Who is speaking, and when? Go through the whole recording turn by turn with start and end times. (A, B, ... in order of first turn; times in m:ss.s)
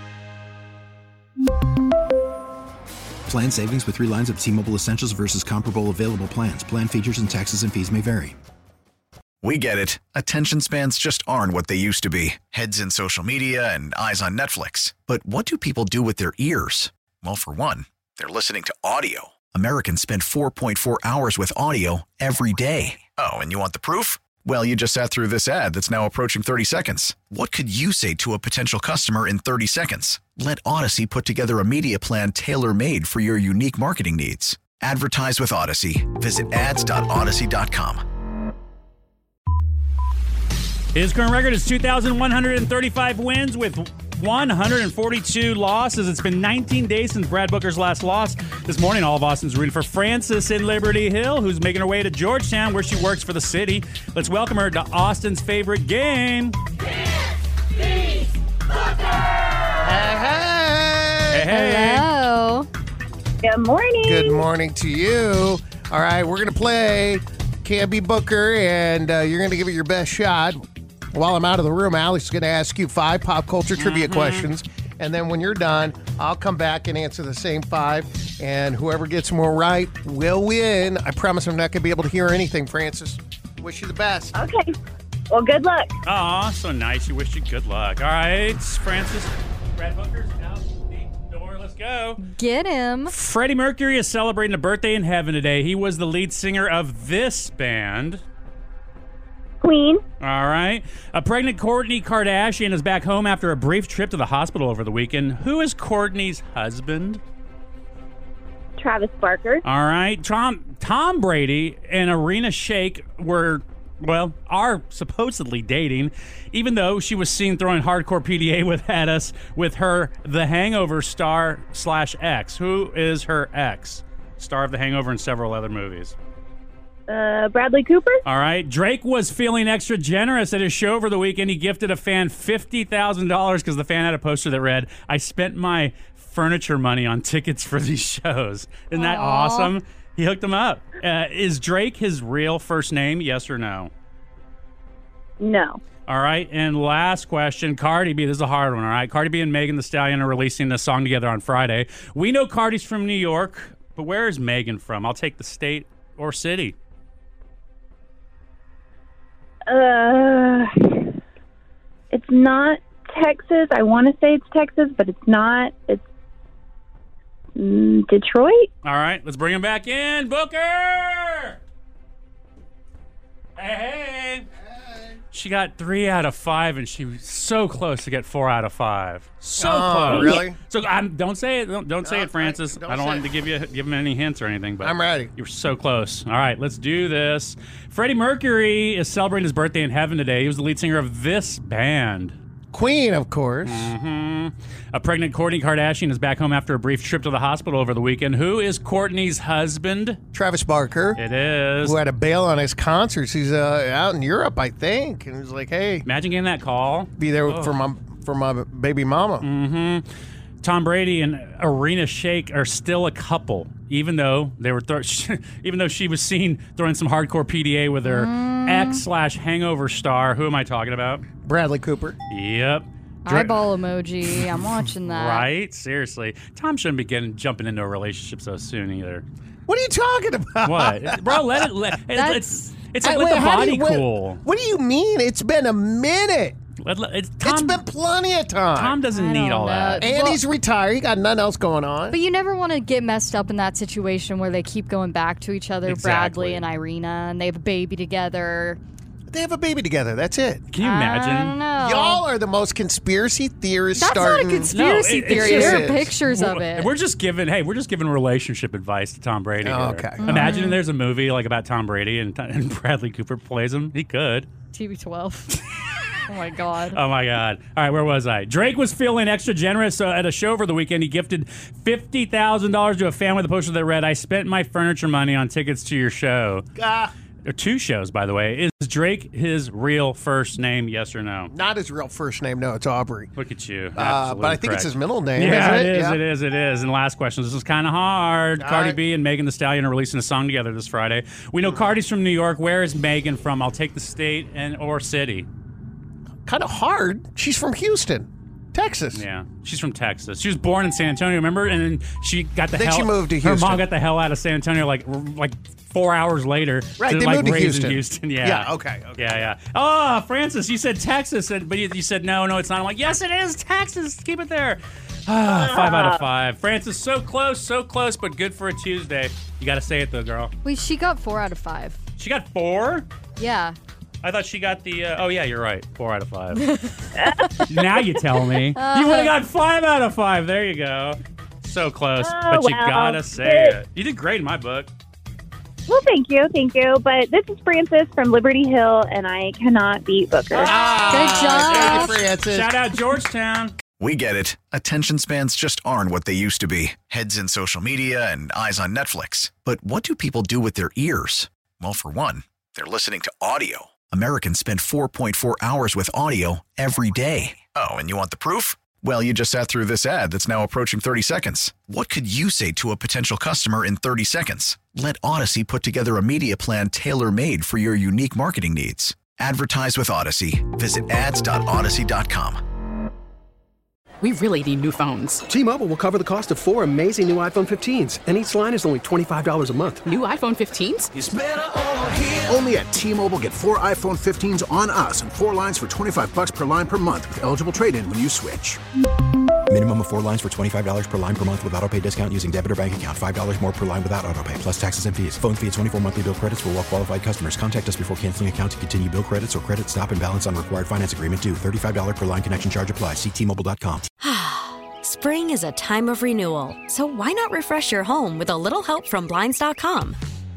0:03.3-0:08.4 A
0:09.4-0:38.0 B
0:41.0-0:56.6 C
0:59.8-1:01.5 D
1:01.3-1:02.1 C
1:01.5-1:02.7 E
1:03.4-1:04.4 F
1:04.0-1:24.3 D
1:13.8-1:14.5 C
1:24.3-1:24.8 F
1:25.3-1:25.9 F
1:26.0-1:32.2 C
1:32.2-1:33.1 E
1:33.1-1:38.2 C
1:39.6-1:40.0 F
1:40.2-1:47.2 C
1:48.8-1:49.6 F
1:49.6-2:06.2 C
2:07.1-2:08.2 F
2:08.3-2:23.9 C
2:18.9-2:19.7 E
2:25.4-2:25.8 F
2:26.1-2:36.8 C
2:39.6-2:41.2 F
2:42.1-2:46.0 F
2:47.6-2:48.7 F
2:48.8-2:51.6 C
2:53.6-2:54.5 C
2:55.3-3:12.4 C
2:59.6-3:00.6 D
3:02.0-3:03.3 D
3:04.8-3:05.3 D
3:12.7-3:13.9 D
3:13.6-3:20.2 C
3:20.3-3:21.2 D
3:21.2-3:22.0 C
3:21.8-3:26.0 D
3:26.0-3:27.8 C
3:27.2-3:29.5 D
3:29.4-3:30.1 C
3:30.6-3:41.2 C
3:38.0-3:39.0 E
3:41.4-3:42.2 D
3:42.3-3:43.6 C
3:43.2-3:45.5 E
3:45.0-3:49.2 C
3:49.7-3:51.6 D
3:50.6-3:54.4 C
3:52.1-3:52.8 E
3:53.0-3:56.6 D
3:56.8-3:57.8 C
3:57.4-3:59.0 D
3:58.8-4:00.1 C
3:59.1-4:00.4 E
4:00.0-4:02.2 D
4:02.1-4:08.8 E
4:05.9-4:06.6 C
4:09.3-4:10.7 D
4:10.7-4:11.6 C
4:10.8-4:12.2 E
4:11.8-4:16.1 D
4:14.0-4:16.9 E
4:14.7-4:24.5 C
4:19.6-4:20.4 D
4:20.2-4:20.8 E
4:24.7-4:25.6 E
4:26.3-4:27.0 E
4:26.9-4:36.6 C
4:36.8-4:37.1 D
4:37.5-4:41.5 C
4:41.5-4:43.3 D
4:43.4-4:55.5 C
4:44.0-4:46.2 D
4:48.6-4:49.0 D
4:51.6-4:51.9 D
4:56.5-4:59.2 D
4:59.1-5:20.5 C
5:02.8-5:03.8 D
5:07.0-5:09.4 D
5:15.5-5:16.2 F
5:20.6-5:22.0 E
5:22.2-5:23.1 C
5:23.4-5:23.8 E
5:24.2-5:26.8 C
5:27.2-5:28.2 F
5:27.7-5:34.9 C
5:28.8-5:29.3 E
5:32.2-5:33.8 F
5:35.9-5:40.7 F
5:40.5-5:42.7 D
5:41.1-5:42.1 E
5:41.2-5:43.8 C
5:44.0-6:12.6 B
6:14.2-6:15.4 G
6:15.5-6:20.1 H
6:20.0-6:21.1 G
6:21.2-6:28.8 I
6:29.7-6:44.1 A
6:44.2-6:50.2 J